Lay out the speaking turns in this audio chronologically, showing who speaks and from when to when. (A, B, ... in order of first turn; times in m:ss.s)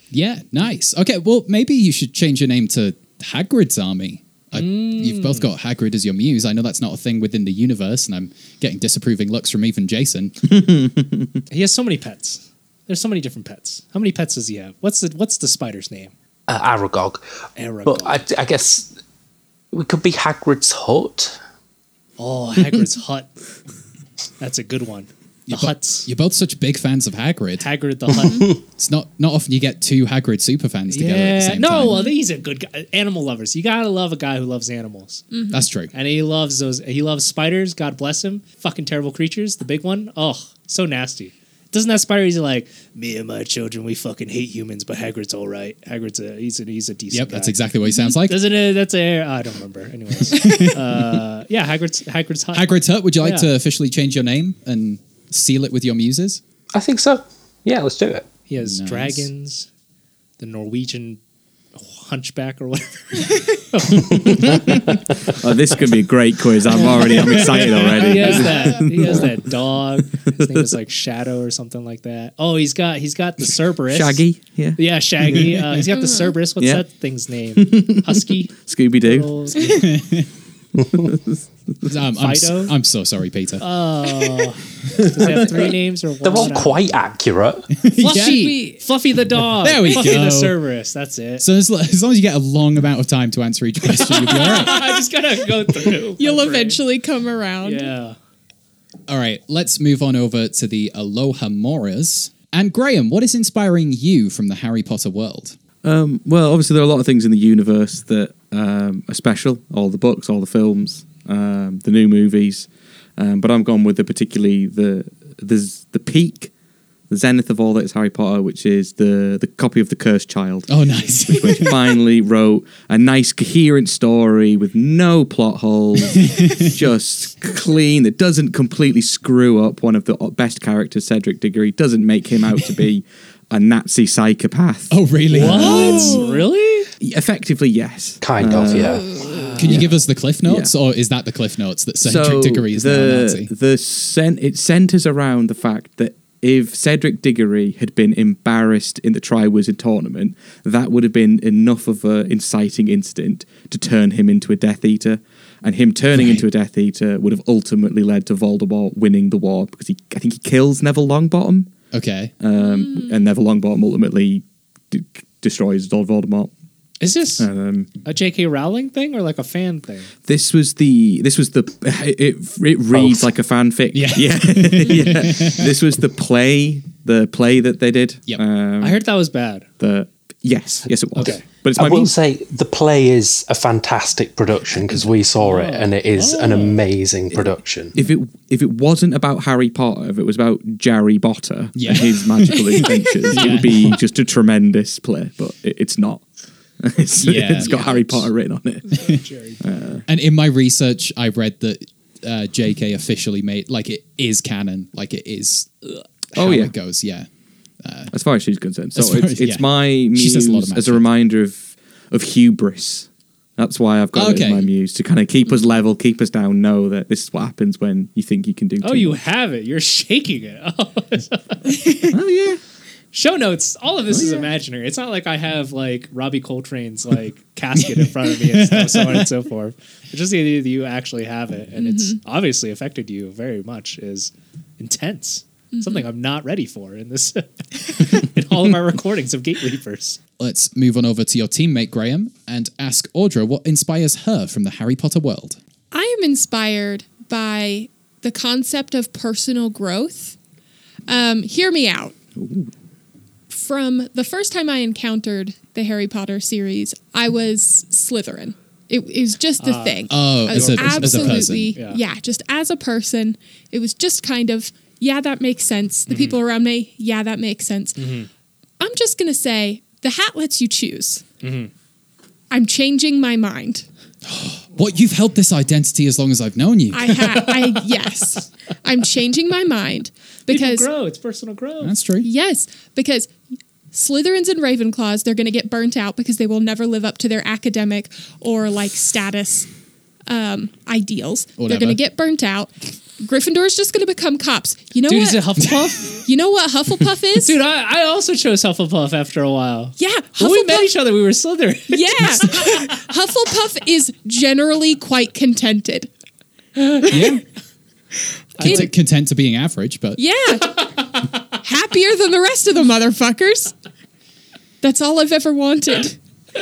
0:00.1-0:10.4 A
0:04.5-0:05.5 B
0:10.5-0:11.3 C
0:11.5-0:16.1 B
0:16.5-0:17.2 D
0:17.6-0:18.2 B
0:17.8-0:18.9 D
0:19.7-0:21.4 D
0:22.2-0:23.3 B
0:24.4-0:26.1 B
0:25.5-0:27.7 A
0:27.6-0:28.5 B
0:28.4-0:32.0 A
0:30.9-0:35.3 B
0:35.5-0:35.9 A
0:35.9-0:47.6 B
0:47.1-0:48.5 A
0:48.2-0:53.5 B
0:50.2-0:51.2 A
0:52.5-0:56.4 A
0:56.7-0:58.3 D
0:58.5-0:59.7 B
0:58.6-0:59.3 A
1:00.4-1:01.2 B
1:01.7-1:05.0 B
1:04.4-1:09.4 C
1:06.7-1:14.2 B
1:13.8-1:15.8 C
1:14.8-1:19.8 B
1:16.6-1:16.8 C
1:17.6-1:19.3 C
1:19.6-1:20.3 A
1:20.9-1:21.8 C
1:21.8-1:23.6 A
1:22.2-1:22.7 B
1:23.6-1:26.9 B
1:26.2-1:27.7 D
1:27.8-1:28.6 A
1:28.0-1:31.4 B
1:28.4-1:28.7 E
1:29.6-1:30.6 A
1:31.4-1:35.0 A
1:34.0-1:36.8 B
1:36.2-1:37.9 E
1:37.6-1:38.2 B
1:39.1-1:45.6 A
1:45.8-1:56.5 C
1:57.1-2:00.7 C
2:00.7-2:01.9 A
2:01.2-2:16.2 C
2:06.1-2:06.7 A
2:14.9-2:16.2 A
2:15.3-2:16.9 B
2:17.0-2:20.7 C
2:18.2-2:19.0 D
2:19.2-2:19.9 B
2:19.6-2:23.5 A
2:22.0-2:41.7 C
2:36.1-2:36.4 A
2:41.9-2:42.3 A
2:42.4-2:46.5 C
2:47.0-2:47.5 B
2:47.4-2:47.9 C
2:48.0-2:50.1 B
2:50.2-2:59.0 C
2:52.9-2:53.2 D
2:53.9-2:55.7 A
2:58.8-2:59.7 B
2:59.8-3:02.1 C
3:01.2-3:01.4 B
3:01.7-3:07.9 D
3:05.4-3:06.8 B
3:07.9-3:16.2 C
3:11.7-3:13.9 A
3:16.8-3:19.0 C
3:17.2-3:18.2 A
3:18.9-3:19.6 B
3:19.6-3:20.0 C
3:20.1-3:25.8 A
3:26.3-3:26.7 C
3:26.3-3:27.3 A
3:27.8-3:28.1 A
3:28.1-3:39.2 C
3:28.9-3:31.0 A
3:34.1-3:34.7 A
3:38.8-3:41.8 B
3:42.1-3:42.6 C
3:43.1-4:00.2 B
3:44.1-3:44.5 C
3:48.0-3:49.2 A
4:00.4-4:05.6 A
4:05.9-4:10.3 E
4:11.1-4:12.1 E
4:12.4-4:12.7 C
4:13.5-4:28.0 E
4:19.6-4:22.0 B
4:20.1-4:21.8 A
4:26.1-4:26.4 B
4:28.0-4:28.3 B
4:28.8-4:31.2 E
4:31.4-4:31.7 B
4:32.5-4:33.8 E
4:34.2-4:37.3 A
4:36.9-4:40.9 E
4:40.5-4:42.0 B
4:41.8-4:42.3 A
4:42.2-4:43.3 E
4:43.9-4:49.7 E
4:50.3-4:55.4 E
4:51.6-4:52.0 A
4:55.1-4:56.2 B
4:56.2-4:57.5 E
4:57.4-5:02.5 B
5:00.0-5:00.8 E
5:01.9-5:06.1 E
5:06.8-5:07.2 B
5:07.0-5:07.4 A
5:08.6-5:08.9 B
5:08.6-5:10.2 A
5:10.2-5:10.7 E
5:11.6-5:13.7 E
5:14.8-5:16.1 E